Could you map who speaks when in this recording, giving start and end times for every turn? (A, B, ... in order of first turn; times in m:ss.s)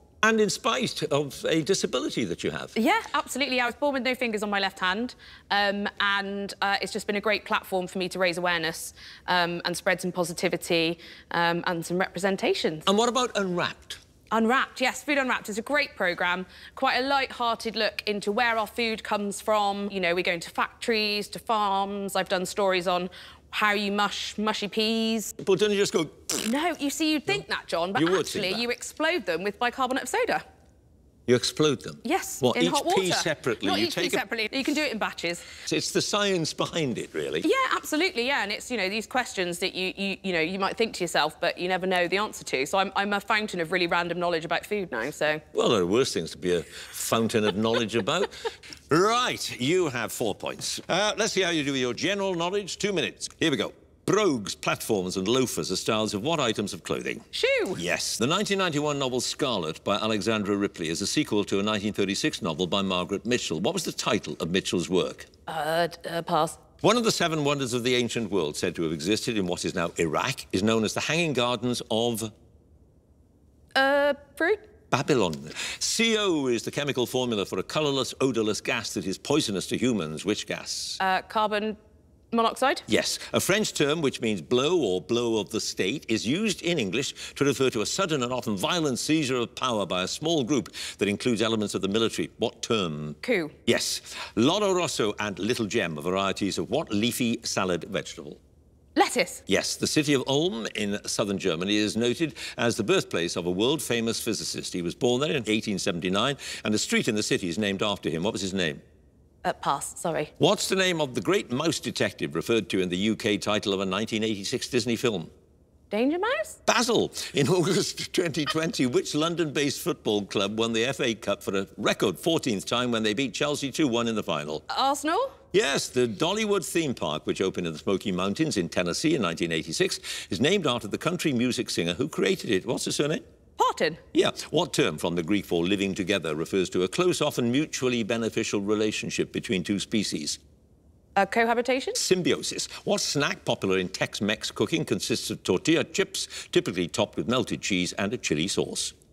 0:00.2-0:02.7 A
0:02.8-0:12.9 B
0:12.9-0:14.0 A
0:14.3-0:25.3 B
0:25.4-0:26.4 A
0:26.4-0:30.4 B
0:28.0-0:28.6 A
0:31.3-0:34.2 A
0:32.0-0:35.5 B
0:35.6-0:37.5 A
0:37.4-0:45.4 B
0:45.5-1:05.3 A
0:57.3-0:57.8 B
1:05.5-1:06.6 B
1:06.8-1:12.3 A
1:13.8-1:14.7 B
1:14.9-1:21.0 A
1:21.0-1:21.8 B
1:22.3-1:22.9 B
1:22.9-1:38.4 A
1:33.2-1:33.5 B
1:39.0-1:39.4 B
1:39.5-1:48.8 A
1:49.4-1:50.3 B
1:50.4-1:55.3 A
1:55.9-1:56.6 B
1:56.7-2:04.6 A
2:04.7-2:05.4 B
2:05.5-2:13.2 A
2:13.6-2:14.0 B
2:14.1-2:20.4 A
2:21.2-2:22.0 B
2:22.0-2:28.9 A